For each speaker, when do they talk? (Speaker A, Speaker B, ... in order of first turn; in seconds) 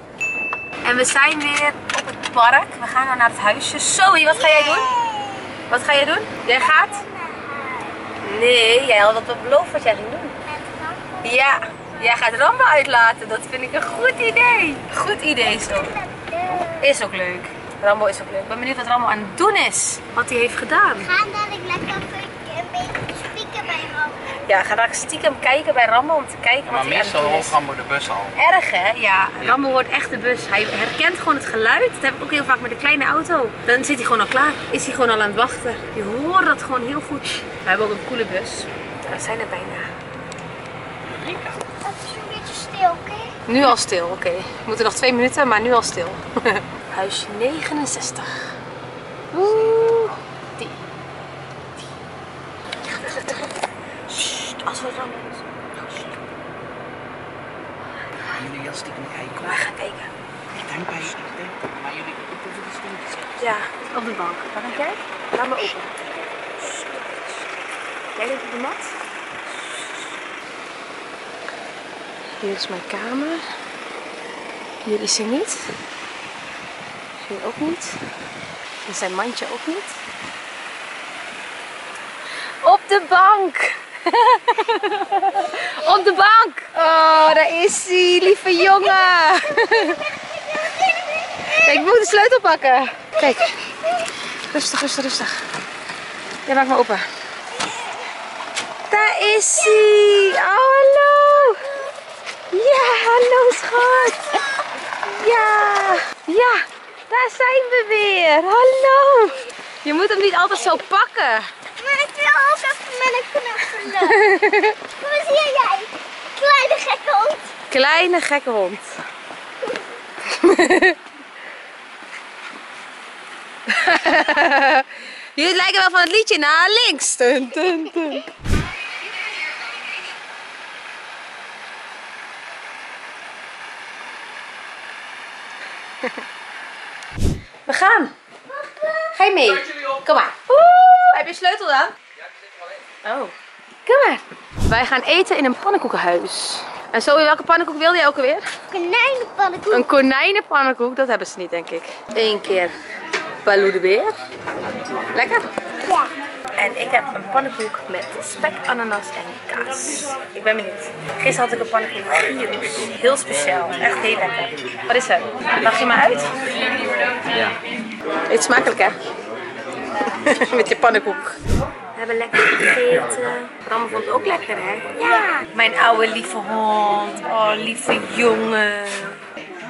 Speaker A: 0.8-4.9, 5.7-7.0, 8.2-10.3, 11.2-15.9, 16.8-21.1, 24.4-27.6, 28.3-39.9, 43.5-48.4, 49.3-50.8, 52.8-53.5, 54.1-56.1, 59.4-60.1, 63.4-66.0, 66.6-67.2, 68.2-69.0, 72.4-73.5, 74.8-75.7, 77.2-78.0, 78.8-80.0, 82.6-90.0, 91.5-93.5, 94.5-95.4, 96.5-97.0, 98.9-101.7, 102.5-104.3, 105.0-111.5, 113.8-114.8, 117.7-119.0, 120.2-121.0, 123.7-128.3, 137.7-138.1, 139.1-141.9, 143.0-143.3, 143.8-148.5, 149.7-152.7, 153.4-154.1, 155.1-155.5, 156.6-166.3, 168.3-169.0, 170.1-171.4, 171.9-174.8, 175.5-179.2
Speaker B: 4.3-5.6, 6.5-8.0, 10.4-11.6, 15.4-16.9, 21.0-24.4, 41.8-43.3, 111.8-114.3, 115.0-117.5, 148.7-149.9, 155.8-156.1, 175.0-175.4
Speaker C: 26.7-28.3, 41.1-41.6, 58.3-59.6, 60.5-63.4